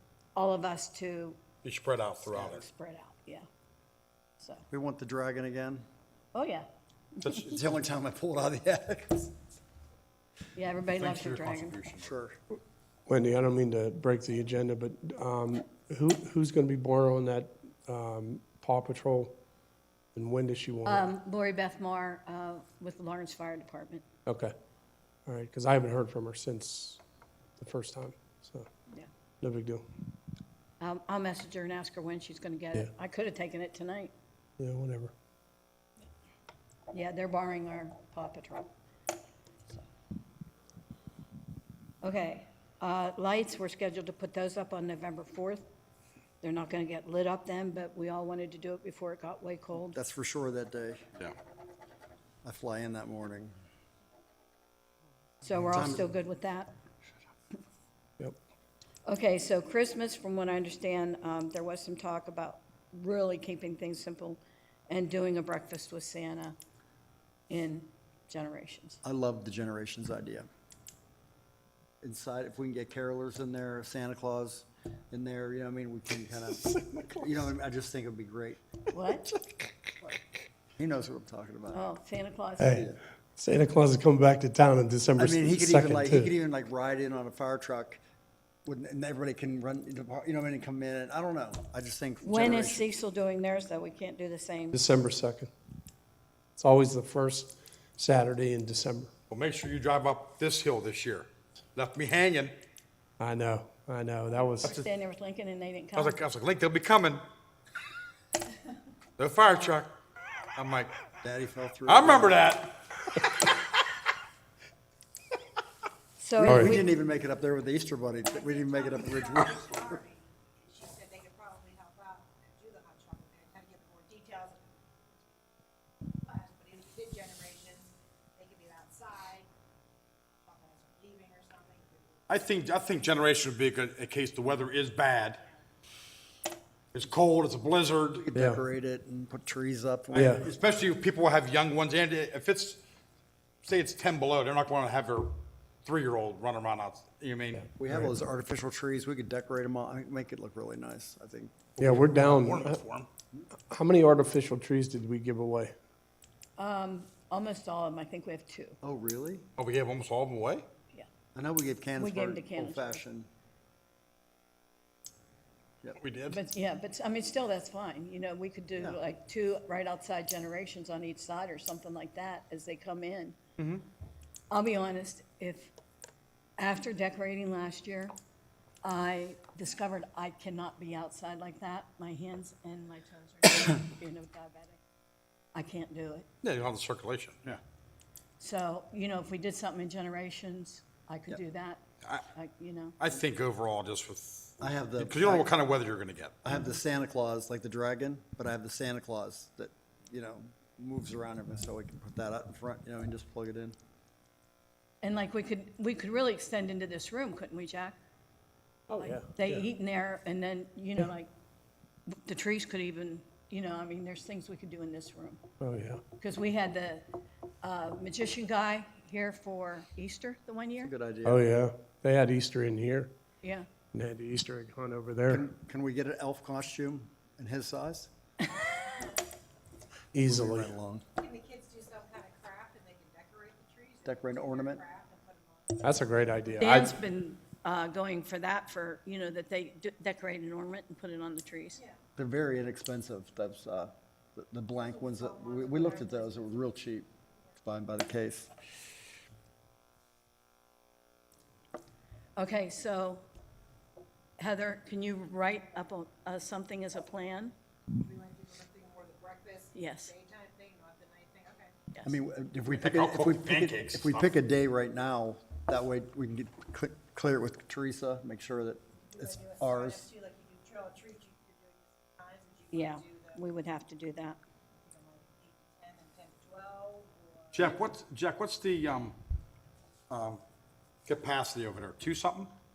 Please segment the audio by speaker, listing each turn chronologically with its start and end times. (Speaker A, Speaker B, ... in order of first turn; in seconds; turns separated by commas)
Speaker A: 0.3-1.4, Speaker B: 1.6-2.6, Speaker A: 2.4-3.5, Speaker A: 4.4-4.7, Speaker C: 4.7-5.8, Speaker A: 6.3-6.7, Speaker B: 7.2-7.6, Speaker C: 7.4-9.3, Speaker A: 10.6-11.8, Speaker B: 10.9-12.1, Speaker C: 12.0-12.4, Speaker D: 13.1-19.4, Speaker D: 20.1-21.1, Speaker A: 20.9-24.1, Speaker D: 24.3-24.5, Speaker D: 25.3-27.0, Speaker D: 27.6-28.7, Speaker D: 29.4-29.9, Speaker A: 30.8-34.1, Speaker D: 34.6-35.1, Speaker A: 36.9-38.7, Speaker A: 42.0-45.6, Speaker A: 46.4-50.0, Speaker C: 49.9-51.0, Speaker C: 52.4-53.5, Speaker A: 55.4-56.7, Speaker C: 55.7-56.1, Speaker A: 59.1-66.6, Speaker A: 67.5-69.0, Speaker C: 69.0-70.5, Speaker C: 72.0-78.6, Speaker D: 76.8-77.2, Speaker A: 78.9-79.3, Speaker C: 80.8-81.8, Speaker A: 81.7-82.8, Speaker D: 82.6-86.3, Speaker C: 82.7-83.0, Speaker C: 85.2-88.0, Speaker C: 88.7-92.8, Speaker A: 92.2-94.8, Speaker D: 94.7-95.5, Speaker D: 96.6-99.1, Speaker B: 99.3-102.5, Speaker D: 103.2-104.8, Speaker A: 104.3-106.2, Speaker B: 106.0-107.2, Speaker B: 109.2-109.9, Speaker B: 110.6-110.9, Speaker C: 111.2-112.4, Speaker B: 111.9-112.8, Speaker A: 116.2-116.9, Speaker C: 116.4-120.0, Speaker D: 116.5-116.8, Speaker E: 118.4-125.4, Speaker E: 126.0-129.5, Speaker E: 130.4-132.2, Speaker B: 132.3-135.4, Speaker B: 136.9-138.3, Speaker C: 138.2-140.4, Speaker D: 140.2-140.4, Speaker B: 140.2-142.8, Speaker B: 143.6-147.7, Speaker D: 147.6-148.0, Speaker C: 147.8-151.6, Speaker B: 151.8-153.1, Speaker D: 151.8-152.8, Speaker D: 153.7-155.8, Speaker A: 156.6-158.8, Speaker C: 158.8-159.4, Speaker B: 159.6-160.7, Speaker C: 161.3-163.3, Speaker A: 162.0-163.0, Speaker B: 166.0-166.4, Speaker A: 166.3-173.4, Speaker B: 173.6-173.8, Speaker A: 174.5-175.7, Speaker A: 176.6-178.1, Speaker A: 178.8-184.8, Speaker A: 185.6-186.3, Speaker B: 186.4-187.6, Speaker A: 188.4-193.0, Speaker B: 193.0-196.4, Speaker C: 194.6-195.5, Speaker C: 196.4-203.8, Speaker A: 205.0-208.0, Speaker D: 208.9-209.6, Speaker A: 208.9-211.3, Speaker A: 212.1-215.4, Speaker D: 215.6-216.0, Speaker A: 216.2-217.1, Speaker A: 217.6-220.9, Speaker C: 220.8-221.4, Speaker D: 221.2-223.1, Speaker D: 223.9-225.4, Speaker C: 225.3-228.1, Speaker D: 230.1-230.7, Speaker C: 230.2-231.1, Speaker E: 231.2-236.0, Speaker C: 234.1-234.8, Speaker D: 235.8-236.9, Speaker A: 236.6-241.8, Speaker C: 242.2-247.1, Speaker E: 245.2-246.4, Speaker C: 247.6-248.5, Speaker A: 252.4-253.2, Speaker A: 254.4-257.5, Speaker E: 257.9-261.7, Speaker A: 259.7-260.1, Speaker C: 262.0-270.1, Speaker B: 262.7-264.3, Speaker E: 269.1-273.4, Speaker A: 272.7-274.4, Speaker E: 274.8-277.6, Speaker B: 277.5-279.2, Speaker B: 280.1-280.4, Speaker B: 281.1-282.5